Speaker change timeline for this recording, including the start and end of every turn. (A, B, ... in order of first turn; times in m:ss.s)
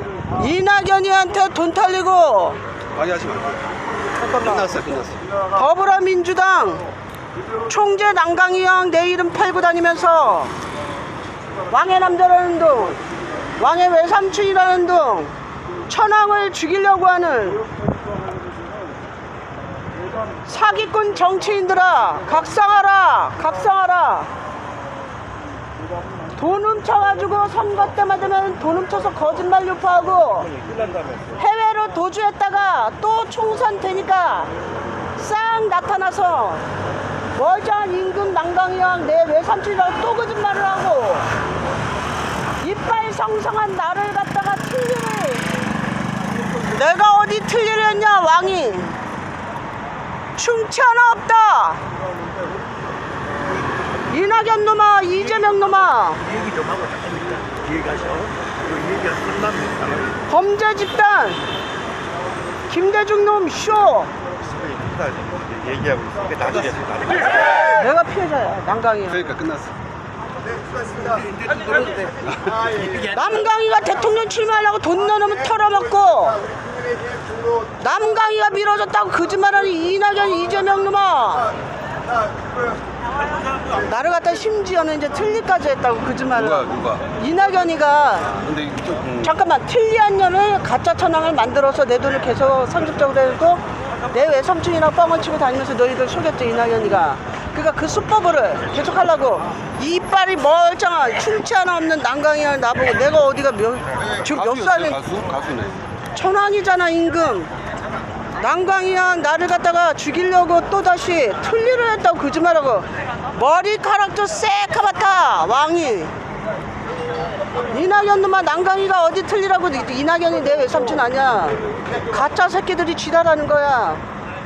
0:00.3-0:02.6 A
0:02.9-0:03.6 B
0:04.1-0:05.2 B
0:05.5-0:06.9 A
0:07.6-0:10.5 A
0:11.7-0:13.0 A
0:13.6-0:15.3 A
0:15.9-0:17.6 A
0:20.4-0:24.3 A
0:26.3-0:30.6 A
0:31.4-0:34.5 A
0:35.2-0:36.6 A
0:37.3-0:41.3 A
0:42.6-0:45.5 A
0:46.6-0:49.0 A
0:50.3-0:51.8 A
0:54.1-0:56.4 A
0:56.3-1:00.1 C
1:00.3-1:01.4 A
1:02.7-1:04.1 A
1:04.4-1:07.6 C
1:07.5-1:09.3 A
1:09.1-1:09.7 B
1:12.9-1:16.4 A
1:17.8-1:21.5 A
1:23.7-1:28.4 A
1:26.4-1:27.0 B
1:28.4-1:29.3 B
1:29.2-1:45.0 A
1:44.2-1:45.8 B
1:46.1-1:47.5 A
1:48.4-1:56.1 A
1:57.7-2:04.0 A